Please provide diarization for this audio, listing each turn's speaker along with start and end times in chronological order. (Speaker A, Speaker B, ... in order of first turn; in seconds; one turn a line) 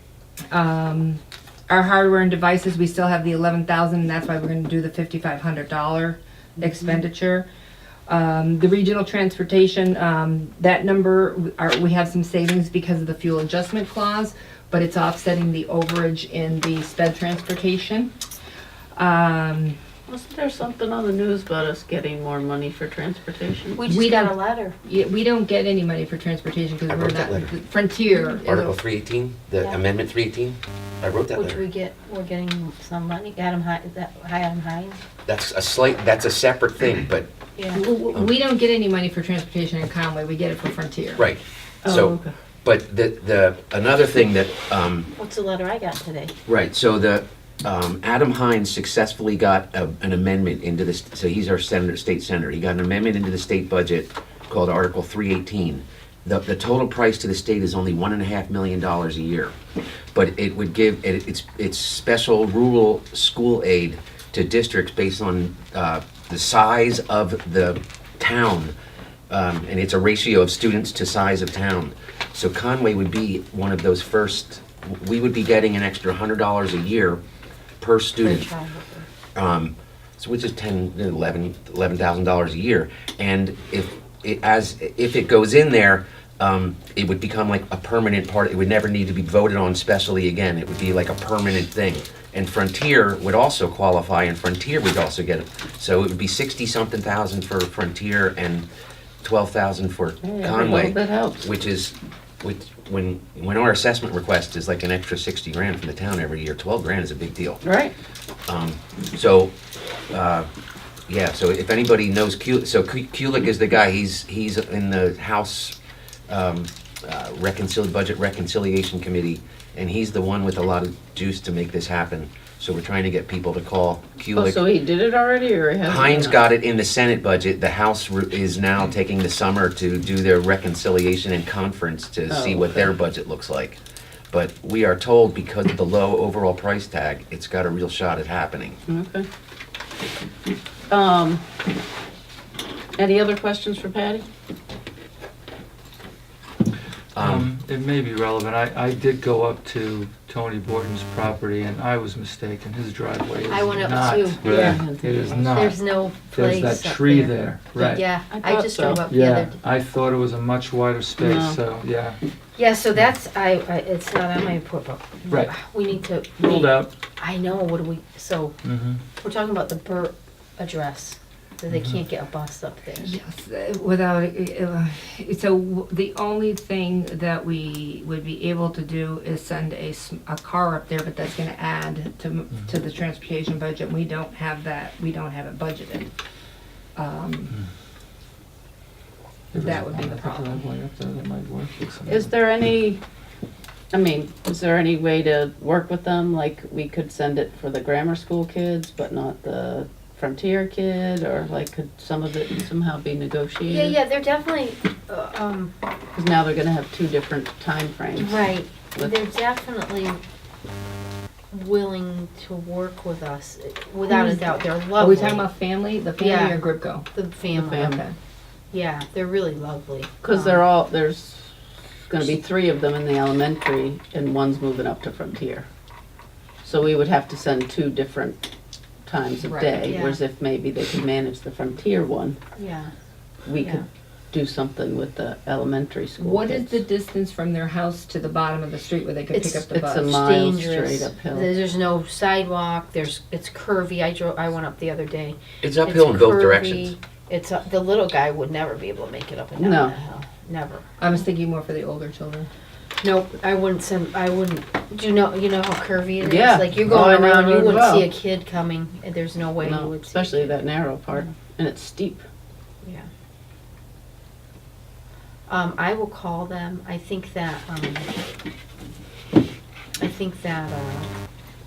Speaker A: 0.5-7.5
Speaker A: 8.1-18.1
Speaker A: 18.9-19.8
Speaker B: 20.1-23.8
Speaker C: 23.8-24.8
Speaker A: 23.9-28.7
Speaker D: 26.9-27.5
Speaker D: 28.4-31.6
Speaker C: 31.3-35.0
Speaker D: 35.2-37.3
Speaker C: 37.6-37.8
Speaker A: 37.7-41.3
Speaker D: 41.2-45.1
Speaker B: 41.8-42.3
Speaker C: 45.1-46.3
Speaker D: 46.5-59.5
Speaker D: 60.1-68.7
Speaker D: 69.3-77.2
Speaker D: 77.8-78.5
Speaker C: 78.2-79.1
Speaker D: 79.3-98.7
Speaker D: 99.2-107.6
Speaker B: 100.2-101.5
Speaker B: 107.6-107.9
Speaker D: 108.5-109.5
Speaker D: 110.1-110.5
Speaker D: 111.1-115.7
Speaker D: 116.3-124.6
Speaker B: 124.3-126.4
Speaker D: 125.8-133.8
Speaker B: 132.3-132.9
Speaker D: 134.3-138.8
Speaker B: 138.9-139.3
Speaker B: 140.9-141.4
Speaker B: 142.9-144.2
Speaker D: 147.1-147.5
Speaker E: 147.2-158.1
Speaker C: 153.5-154.8
Speaker B: 154.5-155.6
Speaker C: 155.5-159.6
Speaker B: 158.3-159.0
Speaker E: 159.1-162.2
Speaker B: 161.2-161.6
Speaker C: 162.6-168.6
Speaker E: 165.3-165.6
Speaker E: 166.4-166.9
Speaker E: 168.6-169.0
Speaker C: 169.2-173.1
Speaker A: 173.0-186.1
Speaker A: 186.9-187.6
Speaker E: 189.5-192.3
Speaker A: 189.6-190.6
Speaker B: 192.1-193.0
Speaker B: 193.9-204.0
Speaker C: 203.6-205.7
Speaker B: 206.1-209.2
Speaker C: 208.2-210.2
Speaker C: 211.5-215.5
Speaker A: 214.1-217.1
Speaker C: 216.2-218.0
Speaker B: 217.6-218.0
Speaker A: 217.6-218.2
Speaker C: 218.7-220.6
Speaker B: 220.2-221.5
Speaker B: 222.1-225.7
Speaker B: 226.6-228.4
Speaker B: 229.0-232.4
Speaker A: 229.4-229.8
Speaker C: 229.8-230.2
Speaker C: 232.6-232.9
Speaker B: 233.4-236.8
Speaker C: 233.6-233.8
Speaker A: 236.2-240.1
Speaker C: 239.3-250.8
Speaker B: 239.7-241.5
Speaker D: 245.6-246.9
Speaker B: 249.6-250.0
Speaker A: 251.0-252.5
Speaker C: 253.0-260.6
Speaker B: 256.2-258.1
Speaker B: 259.6-262.2
Speaker C: 262.8-263.1
Speaker C: 265.5-268.1
Speaker C: 270.0-271.1